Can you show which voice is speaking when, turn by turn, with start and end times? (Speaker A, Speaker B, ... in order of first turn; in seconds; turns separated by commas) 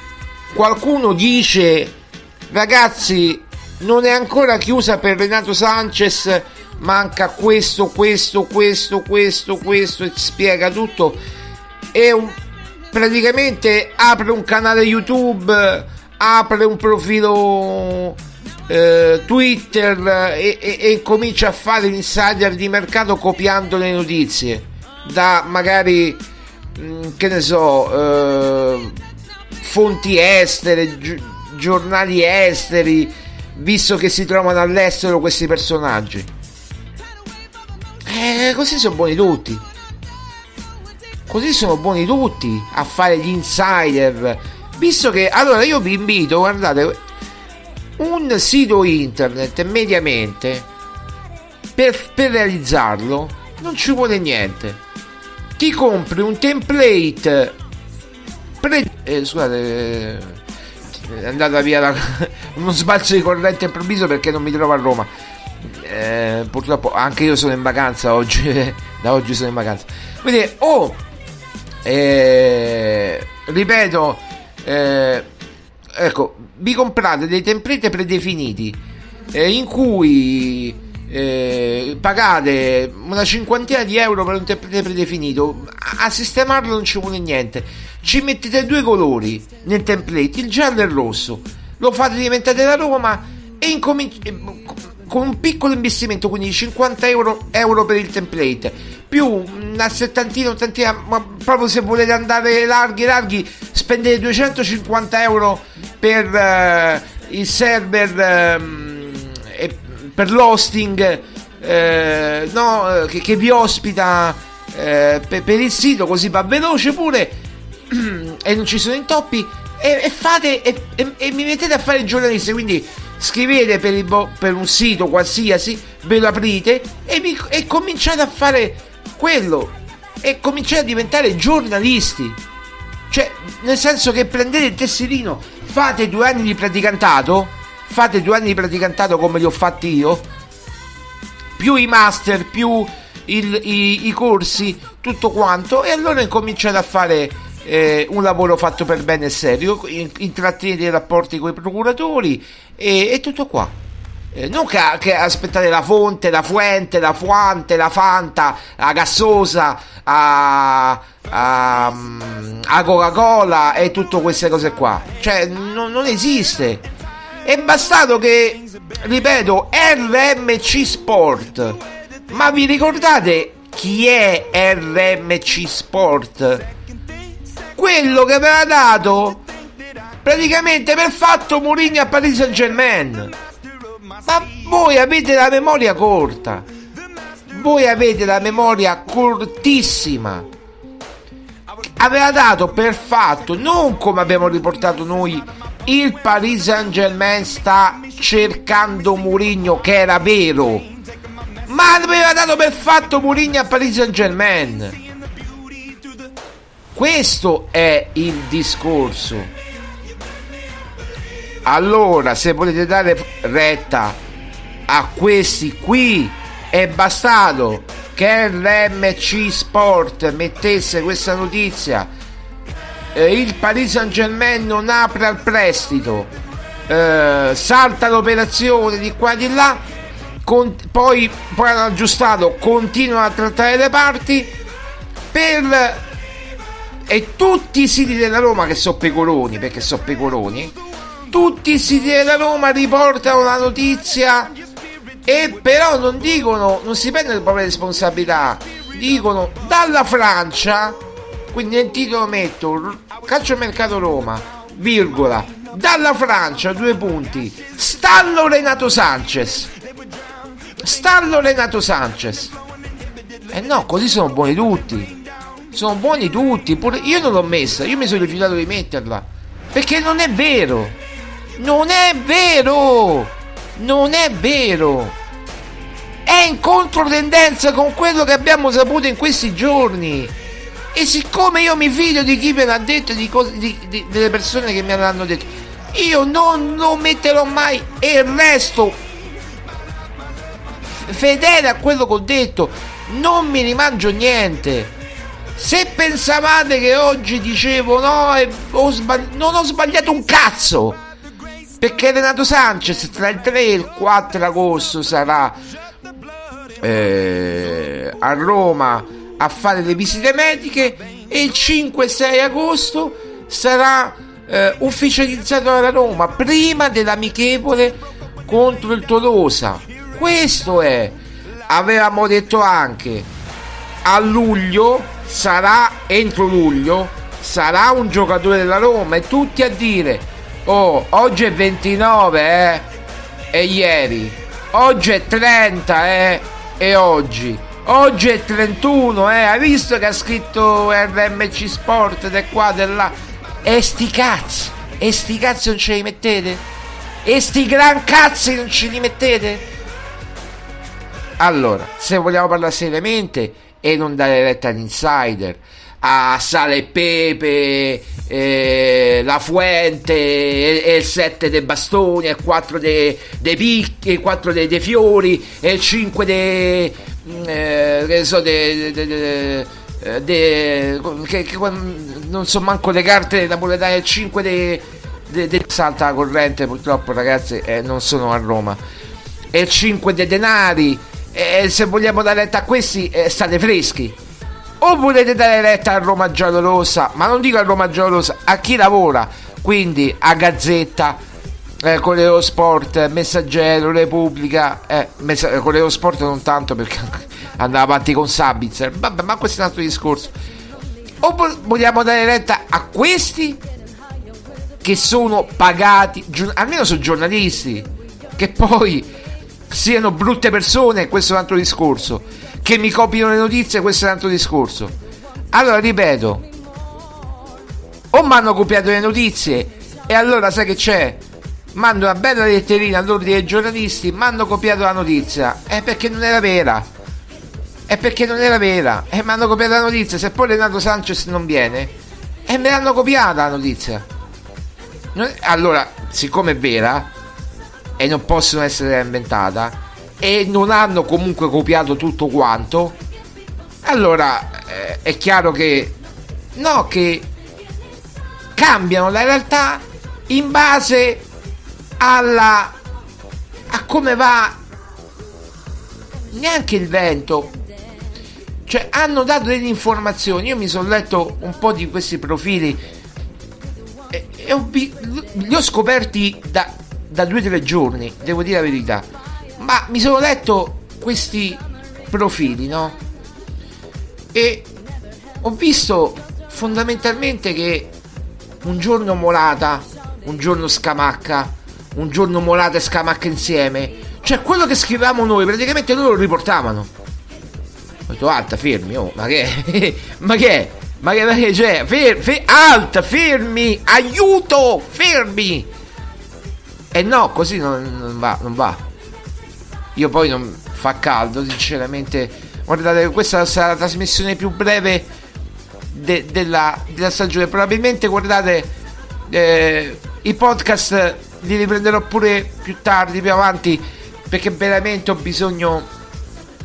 Speaker A: 0.5-1.9, Speaker A: 2.5-11.2, Speaker A: 11.9-12.4, Speaker A: 12.9-26.2, Speaker A: 26.8-29.0, Speaker A: 29.6-36.3, Speaker A: 38.0-39.6, Speaker A: 41.3-47.0, Speaker A: 48.0-50.7, Speaker A: 51.8-54.8, Speaker A: 55.6-57.6, Speaker A: 58.6-60.4, Speaker A: 60.9-65.1, Speaker A: 65.6-71.0, Speaker A: 71.8-75.3, Speaker A: 75.9-78.8, Speaker A: 79.3-117.4, Speaker A: 117.9-132.4, Speaker A: 133.1-140.3, Speaker A: 141.6-153.7, Speaker A: 154.3-166.9, Speaker A: 167.4-176.7, Speaker A: 177.8-179.4, Speaker A: 180.2-183.3, Speaker A: 184.2-186.7, Speaker A: 187.5-190.5, Speaker A: 192.0-200.9, Speaker A: 201.7-205.0, Speaker A: 206.9-209.5, Speaker A: 211.6-214.2, Speaker A: 214.9-222.1, Speaker A: 223.1-226.3, Speaker A: 226.9-229.8, Speaker A: 230.4-234.5, Speaker A: 235.3-236.0, Speaker A: 237.1-240.8, Speaker A: 241.3-244.5, Speaker A: 245.2-251.0, Speaker A: 251.5-259.7, Speaker A: 260.8-262.5, Speaker A: 263.5-265.2, Speaker A: 265.7-271.0, Speaker A: 271.6-275.1, Speaker A: 276.2-280.3, Speaker A: 280.9-289.0, Speaker A: 290.9-294.9, Speaker A: 295.6-301.0, Speaker A: 301.8-305.6, Speaker A: 306.8-323.3, Speaker A: 324.0-332.9, Speaker A: 333.5-346.6, Speaker A: 347.2-349.6, Speaker A: 351.4-378.8, Speaker A: 379.5-384.2, Speaker A: 384.8-391.2, Speaker A: 391.8-400.3, Speaker A: 401.2-403.6, Speaker A: 404.8-409.1, Speaker A: 409.7-414.9, Speaker A: 415.5-416.4, Speaker A: 418.1-421.2, Speaker A: 421.7-426.9, Speaker A: 427.9-431.9, Speaker A: 432.4-434.1, Speaker A: 435.1-437.1, Speaker A: 438.0-443.0, Speaker A: 443.8-446.0, Speaker A: 446.6-447.3, Speaker A: 448.5-451.2, Speaker A: 452.0-452.8, Speaker A: 453.7-454.6, Speaker A: 456.3-457.5, Speaker A: 458.7-462.9, Speaker A: 464.1-469.1, Speaker A: 469.6-473.0, Speaker A: 474.3-474.7, Speaker A: 475.4-477.9, Speaker A: 478.6-486.9, Speaker A: 488.1-495.7, Speaker A: 496.9-498.8, Speaker A: 499.9-505.1, Speaker A: 505.9-508.7, Speaker A: 509.3-515.9